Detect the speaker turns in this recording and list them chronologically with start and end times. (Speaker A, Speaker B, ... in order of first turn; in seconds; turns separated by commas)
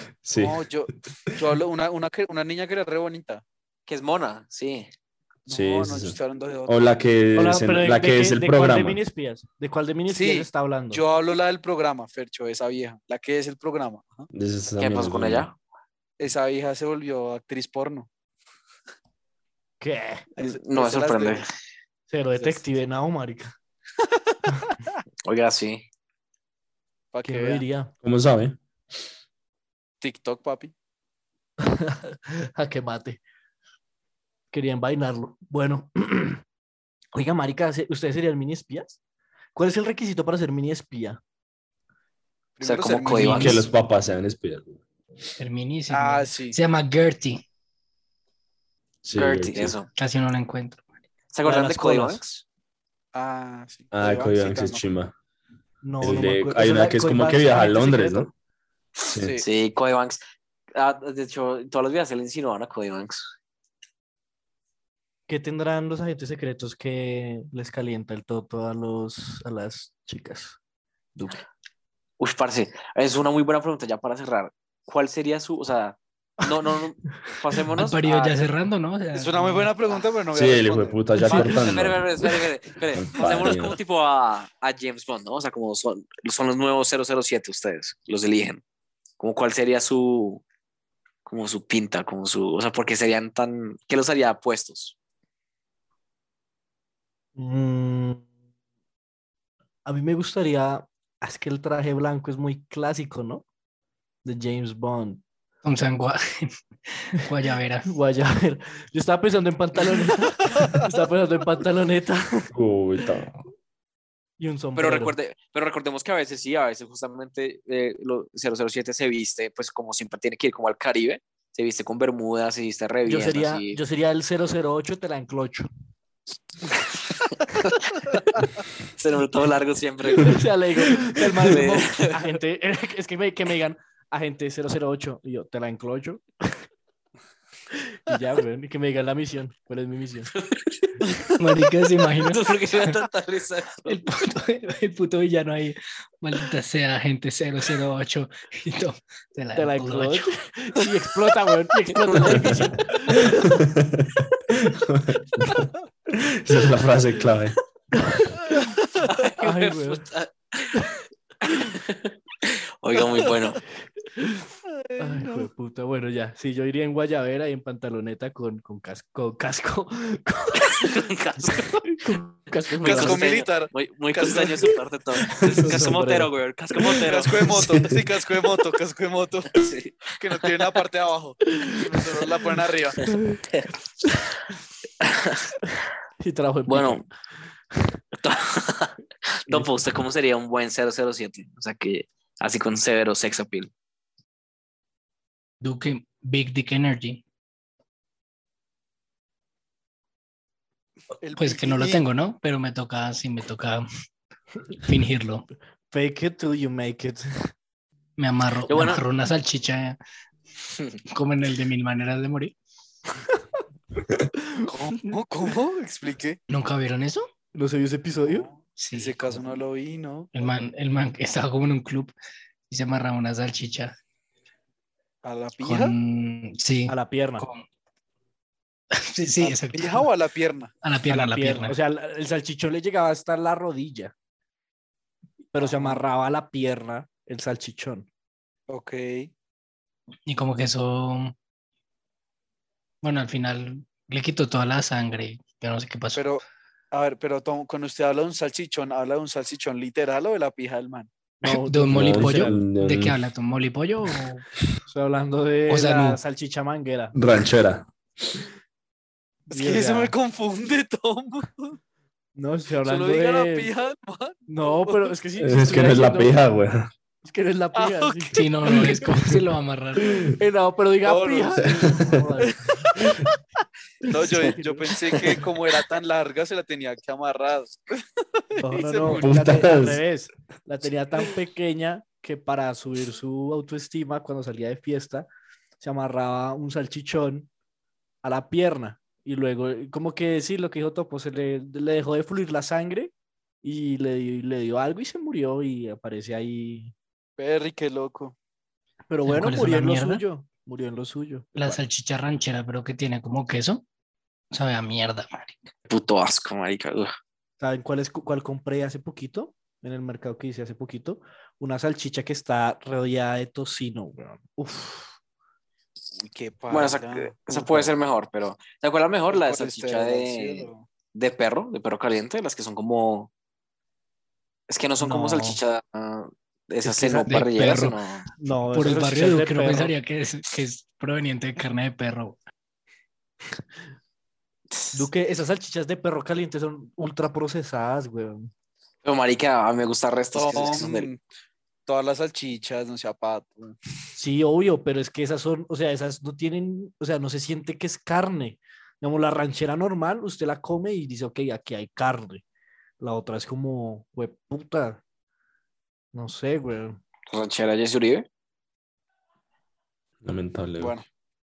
Speaker A: 0.2-0.6, Speaker B: 0.3-3.4, Speaker C: 3.9-4.9, Speaker B: 5.5-6.8, Speaker A: 5.5-9.0, Speaker D: 7.3-11.0, Speaker B: 10.1-14.3, Speaker A: 14.3-15.5, Speaker C: 14.8-15.6, Speaker B: 16.2-18.1, Speaker D: 19.8-20.3, Speaker B: 20.4-21.4, Speaker C: 20.4-21.5, Speaker D: 22.1-23.6, Speaker B: 22.4-22.6, Speaker B: 24.0-24.4, Speaker C: 25.2-25.9, Speaker B: 27.1-27.6, Speaker D: 27.2-27.9, Speaker A: 28.0-28.6, Speaker B: 30.0-30.7, Speaker D: 31.6-33.2, Speaker D: 34.5-36.4, Speaker D: 37.1-39.0, Speaker D: 39.5-41.2, Speaker B: 42.6-43.6, Speaker C: 42.6-43.7, Speaker E: 43.0-43.6, Speaker A: 43.2-44.8, Speaker E: 45.4-47.5, Speaker B: 45.9-46.6, Speaker A: 49.0-49.8, Speaker C: 49.1-49.9, Speaker E: 50.0-50.8, Speaker C: 51.3-52.3, Speaker D: 51.4-52.4, Speaker B: 53.1-54.9, Speaker A: 53.9-55.1, Speaker D: 55.8-58.3, Speaker A: 56.0-58.3, Speaker B: 59.1-59.5, Speaker A: 59.1-59.4, Speaker C: 59.4-60.2, Speaker C: 60.7-63.3, Speaker D: 65.3-70.6, Speaker D: 71.2-71.4, Speaker C: 72.2-78.4, Speaker E: 77.8-79.7, Speaker B: 79.1-81.8, Speaker A: 80.3-82.1, Speaker C: 81.3-88.6, Speaker A: 82.9-83.8, Speaker C: 89.2-90.4, Speaker C: 91.2-95.0, Speaker D: 97.4-98.3, Speaker D: 99.9-103.4, Speaker D: 104.2-105.2, Speaker E: 105.6-107.9, Speaker D: 107.9-112.5, Speaker B: 110.5-110.9, Speaker A: 112.5-113.4, Speaker D: 114.4-115.2, Speaker C: 114.8-123.8, Speaker D: 123.1-125.7, Speaker C: 127.0-128.4, Speaker C: 129.0-130.5, Speaker D: 130.2-136.6, Speaker C: 131.4-132.2, Speaker D: 137.7-140.3, Speaker C: 140.3-141.0, Speaker B: 141.1-141.4, Speaker E: 141.4-142.9, Speaker C: 142.2-144.0, Speaker E: 143.9-150.3, Speaker D: 149.6-153.5, Speaker C: 151.9-152.7, Speaker A: 153.2-157.6, Speaker D: 158.0-158.7, Speaker B: 158.8-159.1, Speaker C: 159.0-160.8, Speaker D: 159.4-160.1, Speaker C: 161.4-163.6, Speaker D: 164.0-173.3, Speaker B: 164.7-165.5, Speaker C: 170.6-171.8, Speaker C: 172.8-177.5, Speaker B: 172.8-174.8, Speaker D: 175.3-176.3, Speaker B: 176.9-183.1, Speaker A: 177.5-178.0, Speaker C: 179.5-180.8, Speaker C: 185.0-185.5, Speaker D: 186.2-187.1, Speaker C: 186.7-187.0, Speaker C: 188.2-193.7, Speaker E: 195.6-197.2, Speaker B: 201.2-202.0, Speaker E: 201.4-203.9, Speaker E: 204.7-205.5, Speaker D: 205.9-207.5, Speaker E: 208.2-210.0, Speaker C: 208.7-209.0, Speaker E: 211.1-212.5, Speaker D: 214.4-214.7, Speaker B: 214.7-216.4, Speaker E: 216.5-217.3, Speaker D: 217.5-218.5, Speaker B: 218.2-220.5, Speaker E: 218.8-219.4, Speaker E: 220.3-222.1, Speaker E: 222.7-223.9, Speaker B: 225.2-226.0, Speaker E: 225.6-227.7, Speaker D: 226.9-227.5, Speaker E: 228.9-230.1, Speaker B: 229.4-230.7, Speaker E: 230.8-231.8, Speaker D: 231.1-234.1, Speaker D: 235.5-238.1, Speaker B: 235.6-236.0, Speaker B: 238.7-239.3, Speaker E: 240.3-241.3, Speaker E: 243.0-246.2, Speaker B: 246.1-251.1, Speaker D: 251.4-252.6, Speaker E: 251.5-254.5, Speaker A: 251.9-253.2, Speaker D: 254.9-257.1, Speaker E: 255.7-256.2, Speaker A: 257.1-257.9, Speaker B: 259.5-261.8, Speaker D: 259.5-260.1, Speaker D: 262.4-263.7, Speaker B: 262.8-265.1, Speaker D: 264.5-266.4, Speaker A: 265.4-266.9, Speaker D: 267.2-269.4, Speaker B: 267.8-268.8, Speaker E: 268.3-270.3, Speaker D: 270.1-272.6, Speaker B: 271.0-273.2, Speaker A: 271.8-272.2, Speaker B: 274.0-279.6, Speaker D: 274.1-275.5, Speaker D: 278.6-285.3, Speaker A: 279.2-280.0, Speaker D: 285.8-287.5, Speaker D: 288.2-296.9, Speaker B: 297.4-298.4, Speaker D: 299.1-301.8, Speaker E: 299.2-300.2, Speaker E: 301.6-303.8, Speaker E: 304.5-305.5, Speaker C: 305.9-307.1, Speaker D: 307.6-315.2, Speaker B: 316.2-317.4, Speaker C: 316.7-323.3, Speaker D: 317.5-317.9, Speaker B: 319.3-320.9, Speaker C: 324.7-328.3, Speaker D: 325.0-325.6, Speaker D: 326.8-327.8, Speaker E: 327.3-328.0, Speaker D: 328.3-329.9, Speaker E: 328.7-332.4, Speaker C: 334.7-335.1, Speaker D: 334.9-338.5, Speaker C: 339.0-341.1, Speaker B: 340.3-341.2, Speaker B: 341.9-343.8, Speaker D: 344.2-352.4, Speaker D: 353.0-355.0, Speaker D: 356.1-357.0, Speaker C: 357.3-358.3, Speaker A: 360.2-360.9, Speaker B: 360.8-361.1